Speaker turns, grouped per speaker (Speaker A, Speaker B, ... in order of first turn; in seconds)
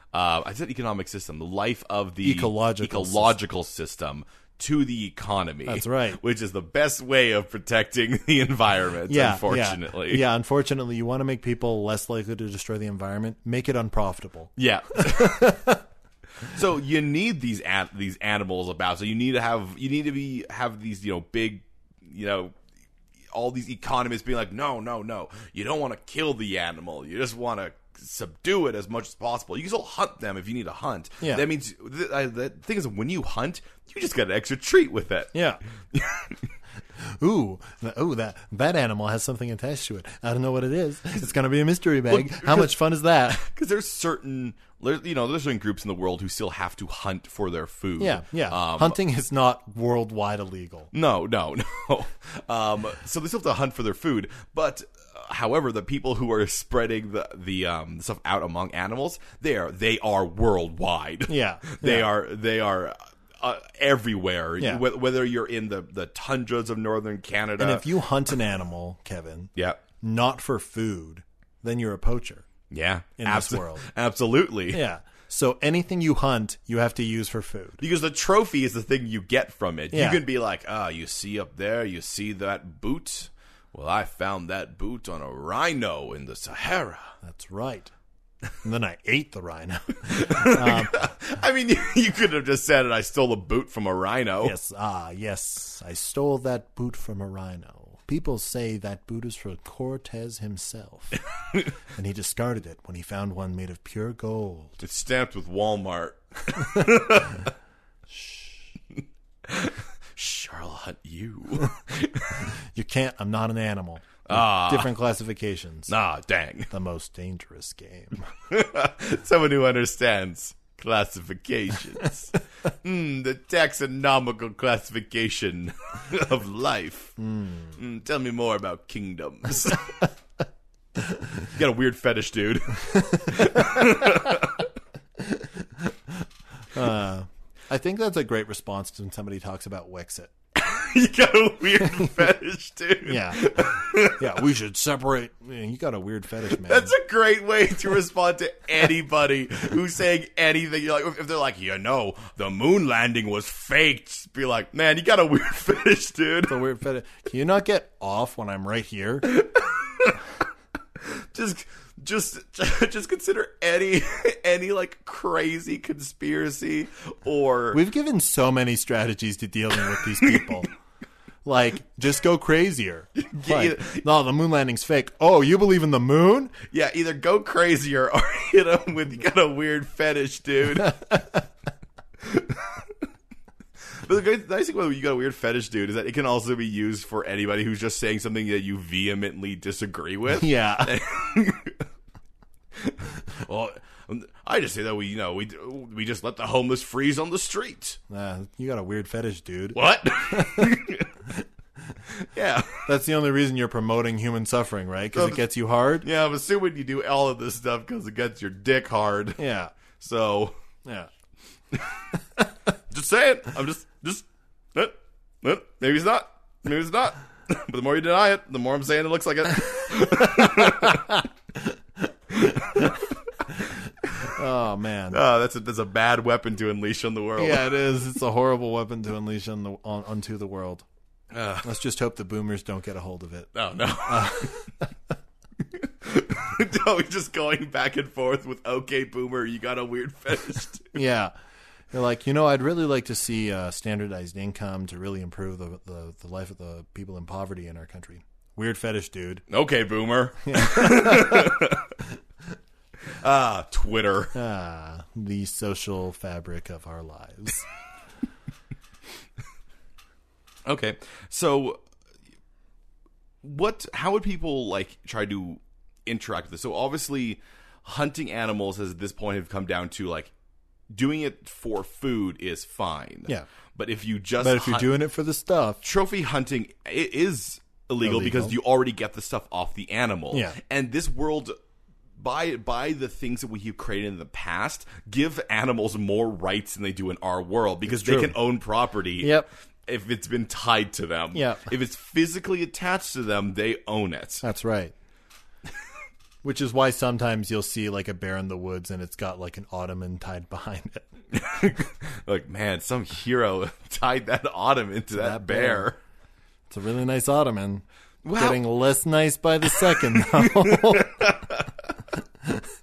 Speaker A: 0.1-10.2, 14.6-15.5, 16.4-22.5, 23.3-35.3, 35.9-36.5, 42.1-42.8, 43.3-49.0, 50.9-67.8, 69.5-69.8, 72.7-74.8, 77.8-87.1, 90.0-94.5, 104.8-107.5, 108.9-112.5, 114.3-114.9, 115.9-116.7, 118.5-127.2, 127.8-130.1, 131.5-134.7, 140.5-144.3, 146.5-156.6, 159.3-160.2, 161.0-167.8, 169.9-170.5, 173.2-174.0, 176.7-181.2, 182.2-183.0, 183.9-191.8, 192.7-198.0, 199.7-201.2, 202.1-202.9, 205.1-205.4, 206.0-209.4, 210.0-210.6, 211.7-212.0, 212.9-221.2, 222.3-223.1, 224.0-224.3, 225.1-227.8, 231.3-231.7, 233.5-234.6, 235.7-241.0, 249.5-251.9, 253.0-254.3, 260.6-261.8, 263.4-270.3, 270.9-274.9, 275.8-281.5, 282.2-294.4, 301.3-306.0, 308.2-308.6, 309.7-311.9
Speaker B: 2.2-3.3, 5.7-6.2, 9.1-15.8, 35.3-35.6, 37.0-43.5, 48.0-50.9, 61.3-62.1, 67.6-72.4, 73.2-73.9, 74.7-77.8, 79.9-80.2, 87.2-87.9, 88.6-91.0, 94.4-101.2, 101.9-104.8, 112.5-115.9, 116.7-118.3, 127.2-127.8, 133.0-134.3, 135.3-135.9, 136.7-140.3, 143.1-146.9, 156.5-159.3, 167.7-170.7, 171.4-176.6, 180.8-181.4, 190.3-191.0, 198.1-200.8, 202.8-206.1, 209.4-209.7, 220.2-221.2, 222.4-225.2, 227.4-230.8, 231.6-233.5, 234.0-234.9, 240.9-241.3, 241.9-249.4, 250.4-251.6, 254.3-257.6, 274.4-275.8, 278.0-278.5, 280.3-280.6, 287.9-288.3, 289.2-289.5, 291.3-291.7, 294.4-294.9, 296.4-301.1, 305.1-305.9, 306.7-307.8, 308.4-311.2